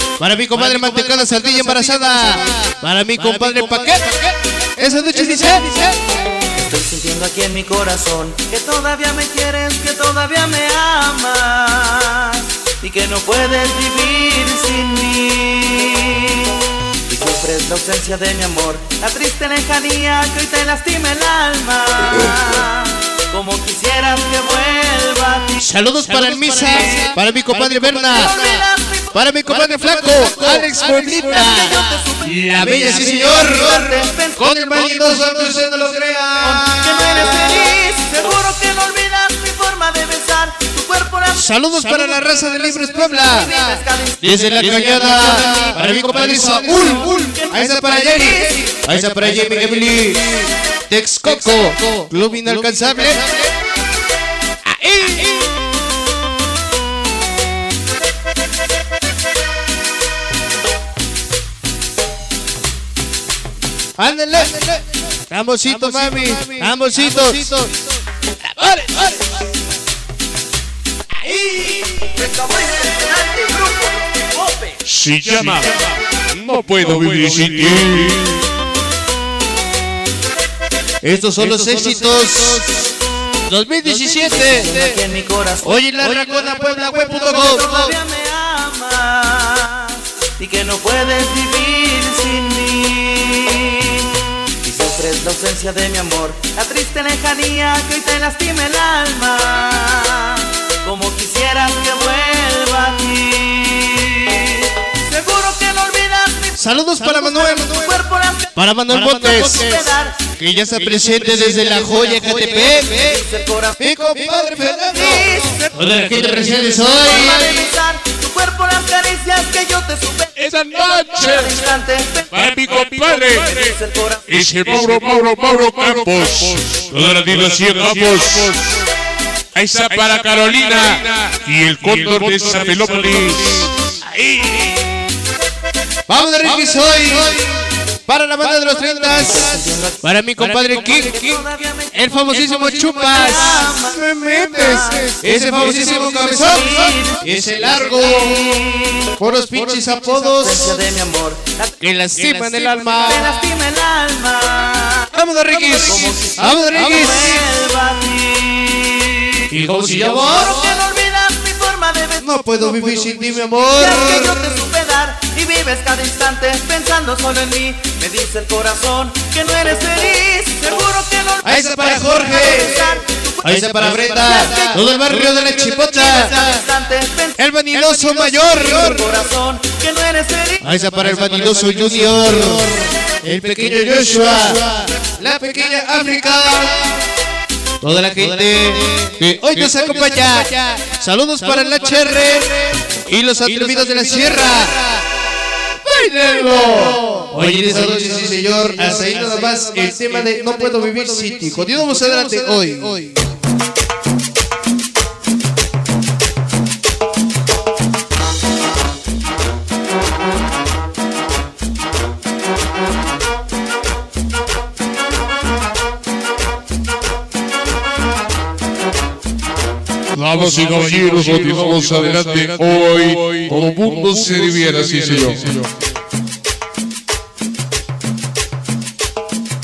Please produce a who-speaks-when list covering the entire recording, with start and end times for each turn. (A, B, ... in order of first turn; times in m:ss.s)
0:00.2-0:04.2 A
0:04.8-0:06.0 A
0:06.5-0:16.5 B
0:17.1-0:25.7 B
0:25.6-0:28.6 A
0:26.8-0:34.6 B
0:29.1-0:37.7 A
0:36.4-0:44.6 B
0:41.3-0:53.2 A
0:47.0-0:48.8 B
0:54.7-0:55.3 A
1:04.0-1:04.7 A
1:05.3-1:07.7 A
1:08.6-1:09.1 A
1:11.3-1:14.8 B
1:14.8-1:15.8 C
1:16.3-1:18.4 C
1:21.0-1:22.8 A
1:23.5-1:25.0 A
1:23.8-1:34.1 B
1:25.6-1:27.9 A
1:34.6-1:50.2 B
1:46.6-1:47.9 A
1:48.6-1:49.8 A
1:50.4-1:53.2 A
1:51.1-1:54.0 B
1:53.8-1:57.6 A
1:54.9-2:00.4 B
2:00.3-2:01.6 C
2:01.0-2:04.3 B
2:02.3-2:03.7 C
2:04.2-2:08.6 C
2:09.5-2:13.7 C
2:16.1-2:17.5 A
2:18.1-2:28.4 A
2:19.2-2:29.1 B
2:29.2-2:30.8 A
2:30.2-2:31.7 B
2:31.8-2:33.5 A
2:32.3-3:00.6 B
2:35.1-2:37.4 A
2:39.5-2:40.6 A
2:42.2-2:44.5 A
2:51.4-2:56.5 A
2:57.4-2:59.1 A
3:00.6-3:06.9 A
3:07.8-3:12.5 A
3:13.1-3:14.8 A
3:15.8-3:23.1 A
3:40.1-3:45.7 C